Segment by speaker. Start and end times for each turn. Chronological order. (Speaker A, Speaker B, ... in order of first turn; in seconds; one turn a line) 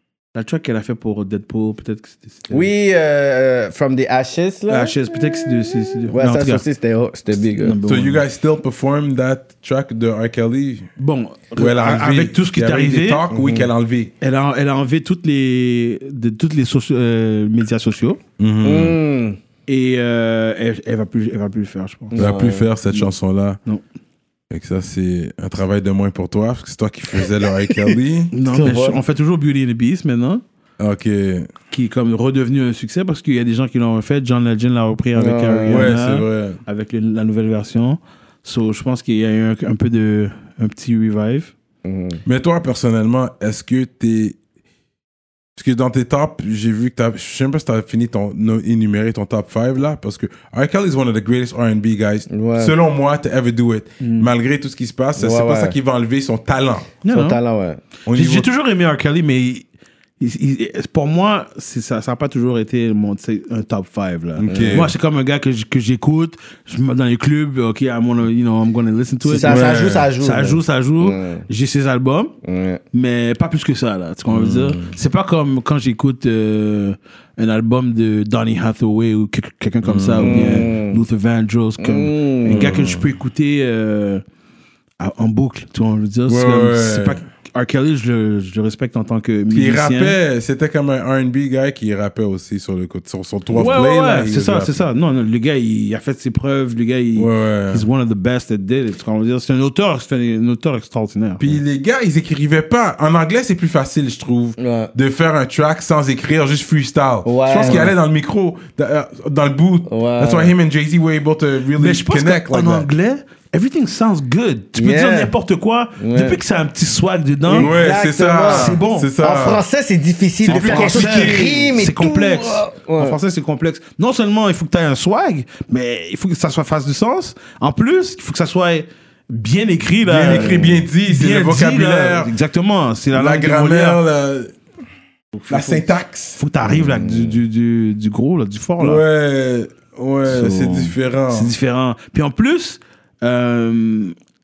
Speaker A: 0.3-2.7
Speaker B: 2.5-4.9
Speaker A: 4.7-6.7
Speaker B: 6.1-7.8
Speaker A: 7.5-8.2
Speaker C: 7.8-10.9
Speaker A: 11.0-13.2
Speaker C: 11.6-14.1
Speaker B: 13.3-13.7
Speaker A: 14.2-18.2
Speaker C: 18.4-19.0
Speaker B: 18.6-19.4
Speaker A: 19.7-22.3
Speaker B: 22.1-22.7
Speaker C: 22.2-23.6
Speaker C: 24.5-28.3
Speaker A: 28.3-30.4
Speaker B: 28.5-29.0
Speaker C: 30.8-31.5
Speaker A: 31.7-41.5
Speaker B: 35.2-35.9
Speaker C: 35.7-36.6
Speaker B: 41.9-42.2
Speaker C: 42.3-44.4
Speaker C: 45.6-56.9
Speaker B: 52.3-52.8
Speaker A: 54.0-54.3
Speaker B: 55.2-55.8
Speaker A: 57.0-57.4
Speaker B: 57.1-57.8
Speaker C: 58.1-58.5
Speaker A: 58.1-59.7
Speaker A: 60.2-72.3
Speaker C: 64.4-64.9
Speaker B: 64.5-64.9
Speaker B: 69.2-71.5
Speaker C: 69.4-70.1
Speaker B: 72.4-72.8
Speaker A: 72.9-84.2
Speaker C: 74.3-75.0
Speaker C: 79.8-80.7
Speaker B: 80.2-81.0
Speaker B: 81.8-82.7
Speaker C: 82.5-83.1
Speaker A: 85.0-90.2
Speaker C: 86.3-87.2
Speaker C: 89.5-94.9
Speaker A: 93.5-101.5
Speaker C: 97.2-97.8
Speaker C: 101.4-112.9
Speaker B: 104.6-104.9
Speaker B: 107.2-107.9
Speaker A: 107.5-107.9
Speaker B: 109.9-110.5
Speaker A: 111.8-117.8
Speaker B: 114.8-115.3
Speaker B: 116.0-116.4
Speaker B: 117.5-123.2
Speaker C: 117.5-119.6
Speaker A: 118.4-119.1
Speaker C: 120.5-121.8
Speaker A: 120.5-134.0
Speaker C: 130.1-132.3
Speaker C: 133.1-134.6
Speaker A: 135.3-139.0
Speaker C: 135.5-136.4
Speaker B: 136.7-137.4
Speaker C: 138.8-141.5
Speaker A: 140.3-144.2